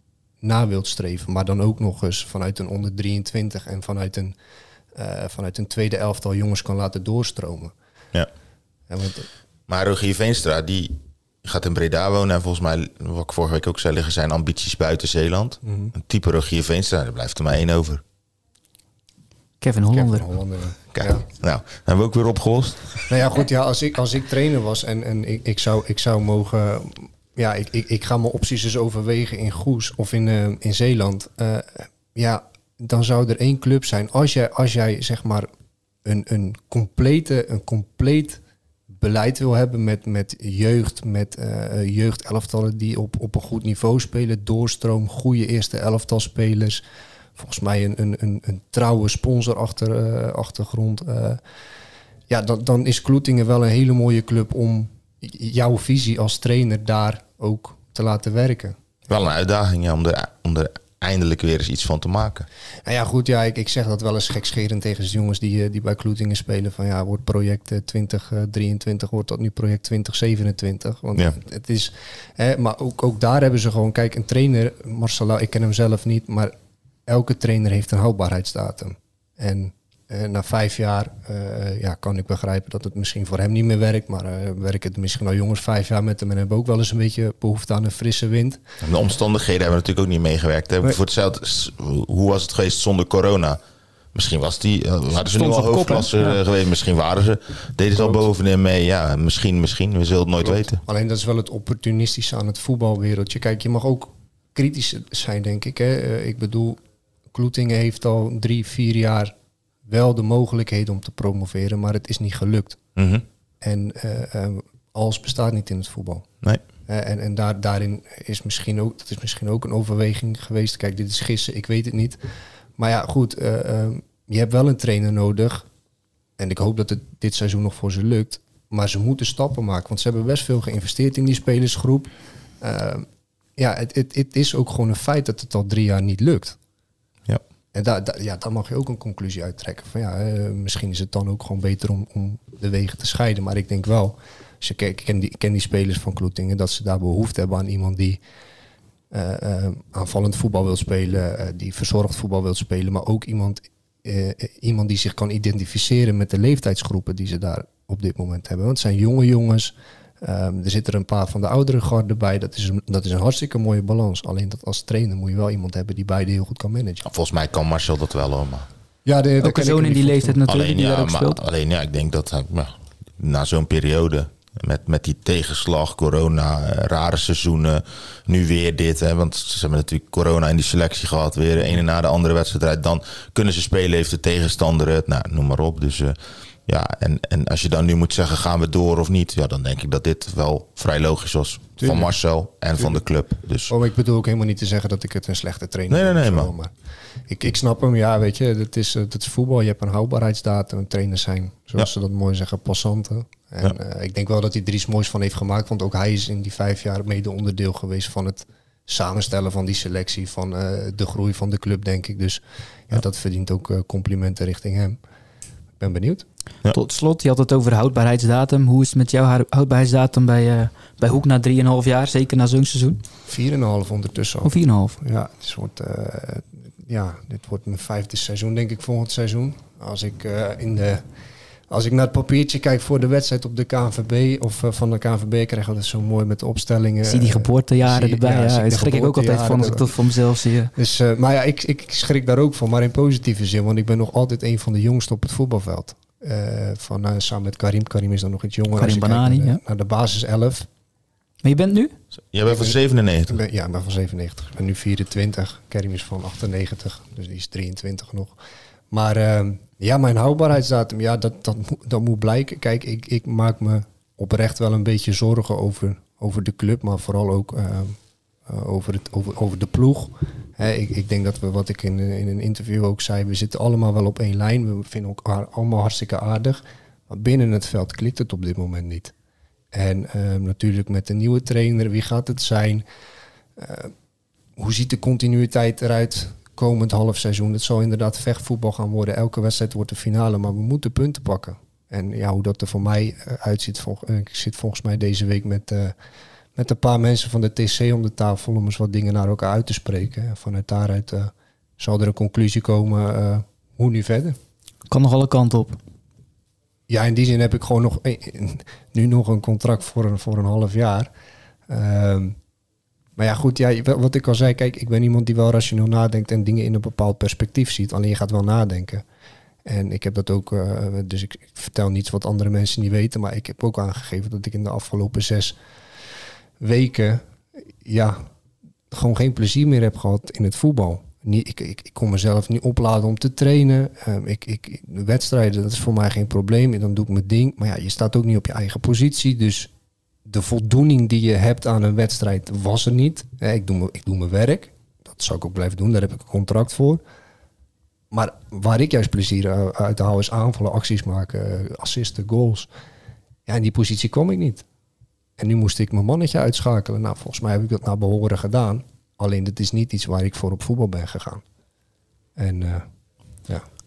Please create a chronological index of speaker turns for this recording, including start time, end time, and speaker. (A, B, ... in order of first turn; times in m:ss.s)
0:00.4-0:04.4 A
0:05.0-0:07.7 A
0:08.9-0:09.3 A
0:09.7-0:18.0 B
0:15.6-0:15.9 A
0:19.6-0:20.3 C
0:19.9-0:21.3 A
0:20.9-0:23.1 B
0:23.1-0:35.5 A
0:36.0-0:38.4 A
0:39.0-0:46.8 A
0:47.4-0:51.4 A
0:52.3-0:58.8 A
0:59.1-1:02.5 B
1:02.9-1:16.5 A
1:17.1-1:28.6 A
1:28.8-1:33.6 B
1:34.1-1:40.8 B
1:35.2-1:36.4 C
1:38.0-1:38.2 A
1:40.4-1:46.8 A
1:47.3-1:49.3 A
1:49.9-1:52.8 A
1:53.0-1:53.2 B
1:53.6-1:56.3 A
1:56.9-2:02.2 A
2:02.8-2:05.7 A
2:06.4-2:13.1 A
2:13.6-2:16.6 A
2:17.7-2:28.2 A
2:29.1-2:47.1 A
2:47.0-2:48.7 B
2:49.1-2:50.4 A
2:49.4-2:51.4 C
2:50.5-3:06.2 B
3:06.7-3:13.7 B
3:11.8-3:12.2 A
3:12.8-3:13.0 A
3:13.7-3:16.7 A
3:15.9-3:16.5 B
3:17.3-3:35.0 A
3:35.8-3:36.2 A
3:36.7-3:43.0 C
3:43.3-3:51.0 A
3:44.4-3:45.0 C
3:51.7-4:00.1 A
3:57.0-4:00.7 C
4:00.7-4:10.7 A
4:08.8-4:09.6 C
4:11.4-4:11.9 C
4:12.3-4:13.4 B
4:12.5-4:18.4 A
4:18.9-4:39.1 A
4:39.7-4:42.8 A
4:43.6-4:43.9 A
4:44.6-4:56.0 A
4:56.6-5:04.4 A
5:04.9-5:05.8 C
5:06.9-5:11.1 A
5:11.7-5:12.4 A
5:13.2-5:19.0 A
5:19.6-5:25.6 A
5:26.6-5:27.2 A
5:27.8-5:28.2 A
5:28.9-5:39.7 A
5:40.3-5:47.0 A
5:48.1-5:52.7 A
5:53.5-5:54.6 A
5:55.4-6:01.4 A
6:02.4-6:02.9 A